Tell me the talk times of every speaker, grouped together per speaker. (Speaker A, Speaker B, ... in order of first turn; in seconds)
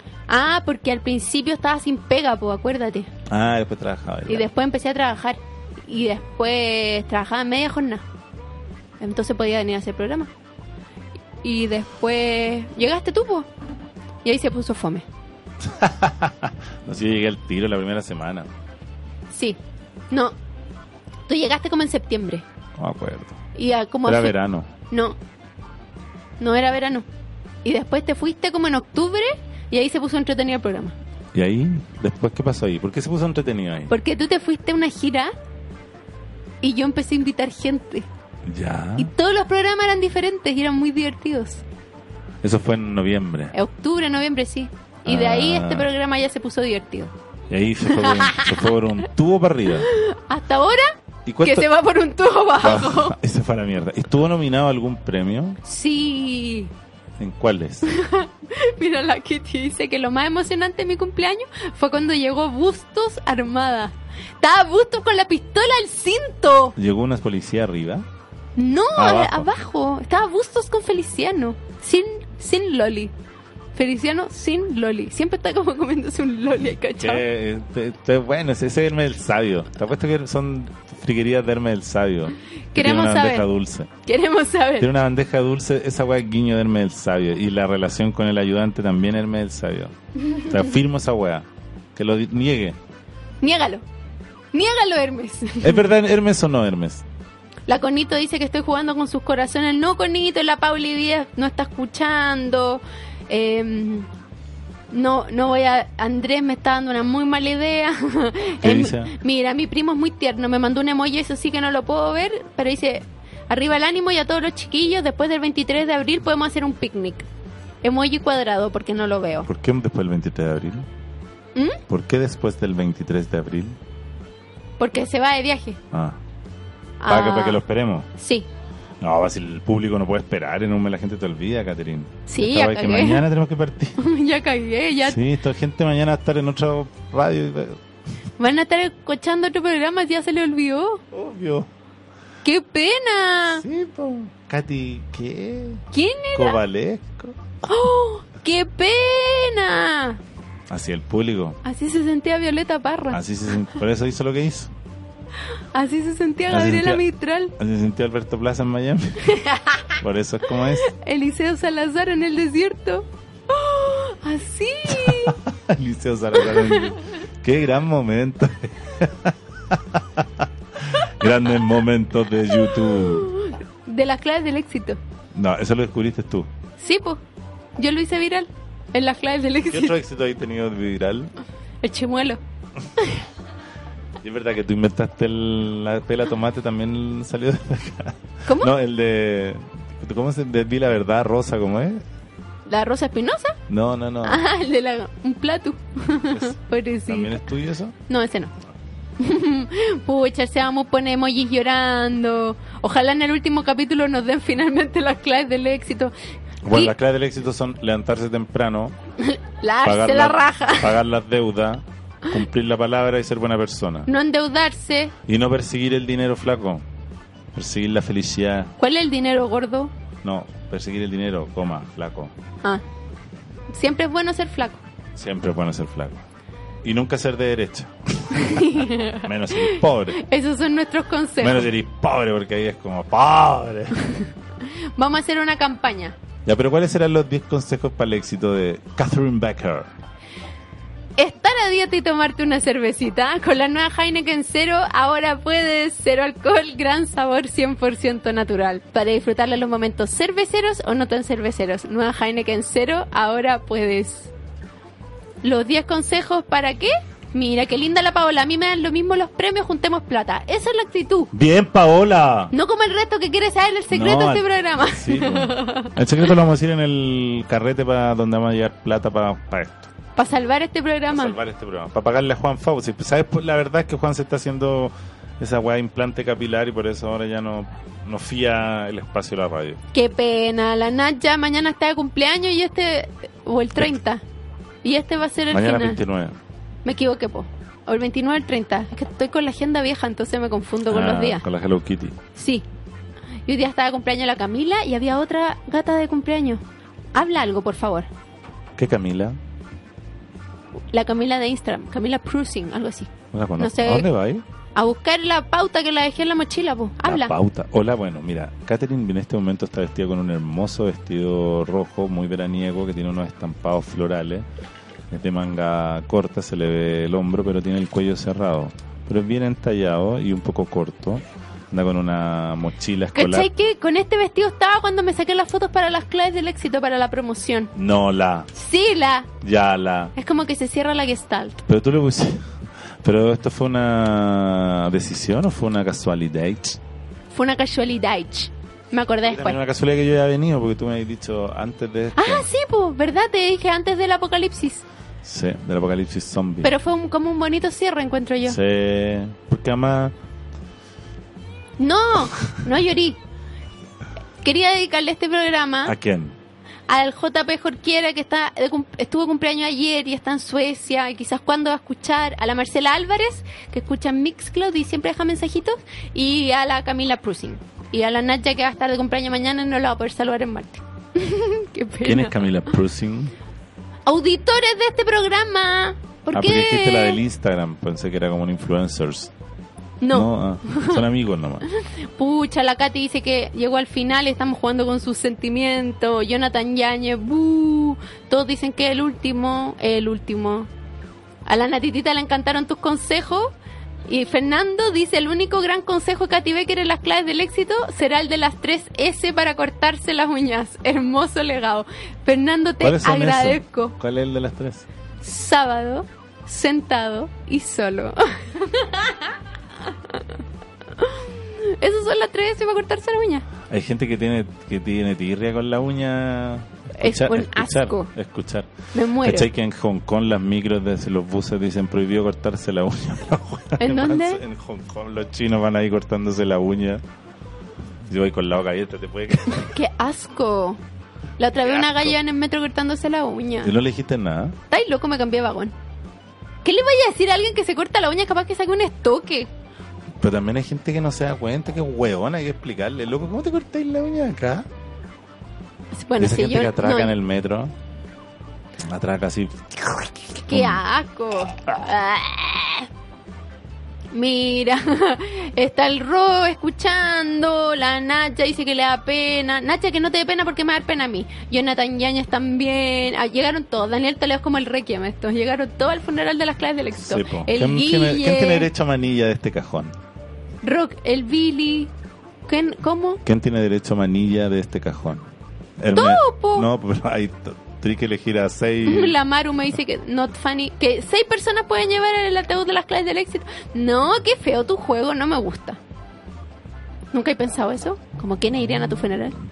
Speaker A: 0.3-3.1, 4.3-8.1, 9.0-10.3, 11.4-13.5, 14.2-15.1, 19.3-19.6, 20.1-20.4, 21.3-22.4, 23.6-24.4, 24.9-25.2, 26.4-27.1, 27.6-31.0, 33.9-35.3, 36.6-38.1, 39.0-41.6, 43.5-47.1, 47.9-48.6, 49.9-53.2, 55.6-56.7, 57.9-66.8, 68.6-73.1, 73.8-77.2, 82.7-83.5, 84.0-84.9, 93.4-93.8, 94.5-95.8, 97.7-104.1, 104.9-117.3, 117.8-119.5, 124.8-125.8, 127.0-127.6, 128.2-128.5, 132.3-133.2, 134.0-135.2, 138.4-141.0, 142.4-143.6, 145.9-146.6, 147.6-150.2, 151.6-153.2, 155.7-157.5, 159.2-159.9, 160.8-165.4, 166.5-167.0, 172.6-175.0, 176.8-177.2, 177.8-179.9, 181.8-182.4, 188.5-188.7, 192.7-193.6, 194.2-197.3, 198.1-198.5, 199.2-206.1, 209.2-210.9, 214.1-215.1, 218.8-219.9, 223.7-224.8, 228.3-231.7, 235.0-236.2, 241.2-254.3, 255.4-261.3, 262.5-265.9, 270.2-271.4, 279.9-284.2, 284.8-286.0, 286.9-291.4, 292.4-292.6, 293.5-296.6, 297.1-298.1, 300.9-304.1, 304.8-307.3, 323.1-327.7, 328.6-329.3, 330.2-331.6, 337.3-339.6, 342.2-344.9, 346.6-348.6, 351.8-353.2, 354.4-355.9, 356.9-372.4, 374.1-377.2, 380.0-381.0, 382.2-390.7, 391.5-393.5, 394.1-404.0, 405.2-409.3, 409.9-410.2, 411.0-413.5, 417.0-418.1, 418.9-419.5, 423.8-424.4, 429.6-430.8, 431.4-433.7, 434.7-435.7, 436.6-439.5, 445.9-447.1, 450.5-452.9, 454.1-468.7, 470.6-471.9, 472.5-473.2, 475.9-476.7, 478.9-485.8, 487.1-489.4
Speaker B: 3.3-4.5, 15.7-18.5, 22.8-23.4, 24.1-24.7, 31.3-33.9, 38.5-39.1, 42.4-43.5, 45.1-45.9, 47.5-49.9, 51.3-51.7, 52.6-55.6, 57.2-58.0, 66.8-68.0, 69.0-69.5, 77.0-83.9, 84.8-92.8, 95.6-97.0, 108.6-109.2, 119.5-120.9, 121.9-123.8, 125.9-126.2, 127.1-128.1, 129.0-134.0, 135.1-137.8, 141.1-141.7, 143.6-145.8, 146.3-147.3, 150.7-151.6, 153.1-154.7, 156.5-157.0, 157.6-159.3, 160.0-160.9, 164.9-173.3, 175.3-176.5, 179.7-181.3, 184.2-192.0, 193.7-194.4, 197.1-197.9, 206.7-208.9, 209.8-214.1, 215.3-216.8, 217.5-218.7, 220.2-222.3, 225.2-226.2, 226.8-230.2, 231.4-234.1, 236.4-239.9, 261.3-262.5, 263.9-269.9, 271.1-279.8, 285.5-286.3, 290.9-292.2, 298.8-299.4, 303.3-304.4, 307.0-314.5, 315.1-323.5, 327.8-328.5, 329.4-330.1, 331.7-332.4, 333.0-336.8, 339.2-342.5, 345.2-346.7, 348.4-350.1, 355.9-356.3, 372.1-373.3, 376.3-379.3, 380.1-381.7, 402.8-404.9, 413.7-418.7, 419.2-427.0, 428.1-429.8, 431.6-432.2, 433.6-434.6, 440.2-444.7, 446.2-447.7, 448.9-450.8, 467.0-469.9, 473.2-475.2, 475.8-479.2